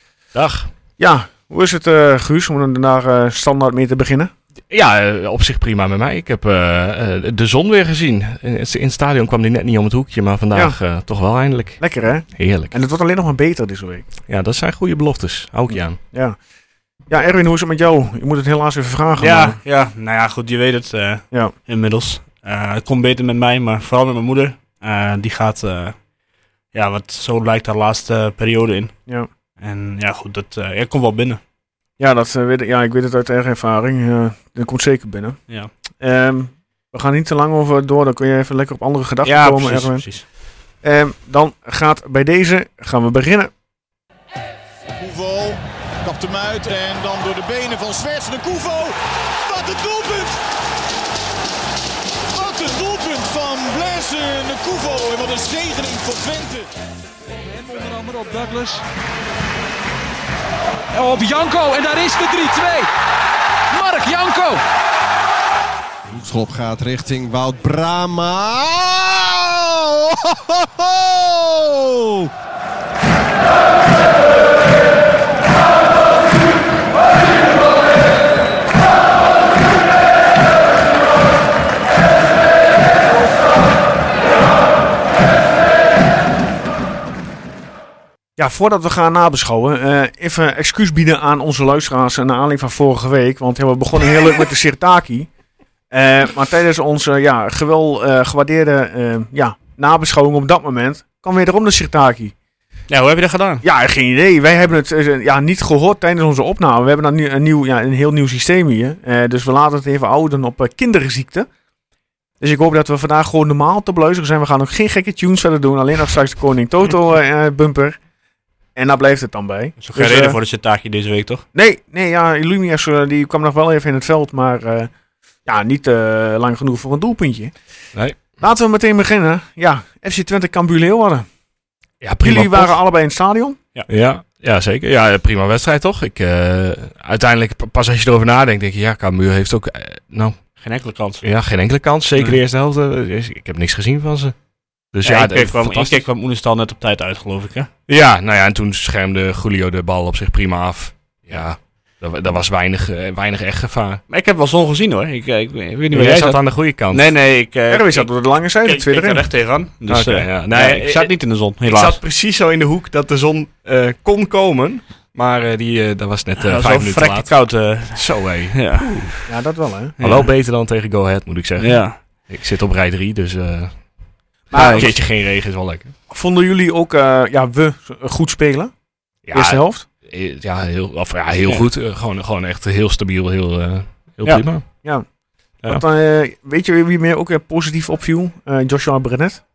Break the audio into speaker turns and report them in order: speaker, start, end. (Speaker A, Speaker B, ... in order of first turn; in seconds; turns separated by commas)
Speaker A: 0.3-0.7, Speaker B: 1.0-4.3, Speaker A: 4.7-12.7, Speaker B: 11.8-14.1, Speaker A: 14.3-16.0, Speaker B: 16.1-16.4, Speaker B: 17.1-19.6, Speaker C: 19.2-26.0, Speaker C: 26.7-29.0, Speaker C: 29.6-31.4, Speaker B: 32.0-35.4, Speaker B: 36.0-40.3, Speaker C: 39.2-40.2, Speaker B: 40.8-43.5, Speaker D: 45.0-50.4, Speaker D: 52.3-56.7, Speaker E: 57.4-58.8, Speaker E: 60.9-62.9, Speaker E: 63.7-64.6, Speaker F: 66.1-72.3, Speaker B: 88.4-95.3, Speaker B: 95.9-102.3, Speaker C: 102.9-103.6, Speaker B: 103.6-111.5, Speaker B: 112.4-118.0, Speaker B: 118.7-120.4, Speaker C: 119.8-121.4, Speaker B: 121.5-124.9, Speaker B: 125.4-127.5, Speaker B: 128.4-131.2, Speaker A: 132.0-132.8, Speaker B: 132.2-133.6, Speaker A: 133.9-140.4, Speaker C: 140.6-141.2, Speaker A: 141.2-144.3, Speaker A: 144.9-146.0, Speaker C: 145.0-147.7, Speaker A: 147.9-154.0, Speaker C: 154.1-158.1, Speaker A: 155.9-157.0, Speaker B: 157.7-159.2, Speaker C: 158.6-162.0, Speaker A: 159.9-167.3, Speaker C: 166.4-169.2, Speaker A: 167.9-169.1, Speaker B: 169.3-169.9, Speaker C: 170.0-170.3, Speaker A: 170.0-173.8, Speaker C: 171.6-171.9, Speaker B: 174.5-175.0, Speaker C: 174.5-174.9, Speaker A: 174.6-175.9, Speaker B: 176.1-178.7, Speaker A: 179.2-184.7, Speaker B: 179.3-179.8, Speaker B: 185.6-189.4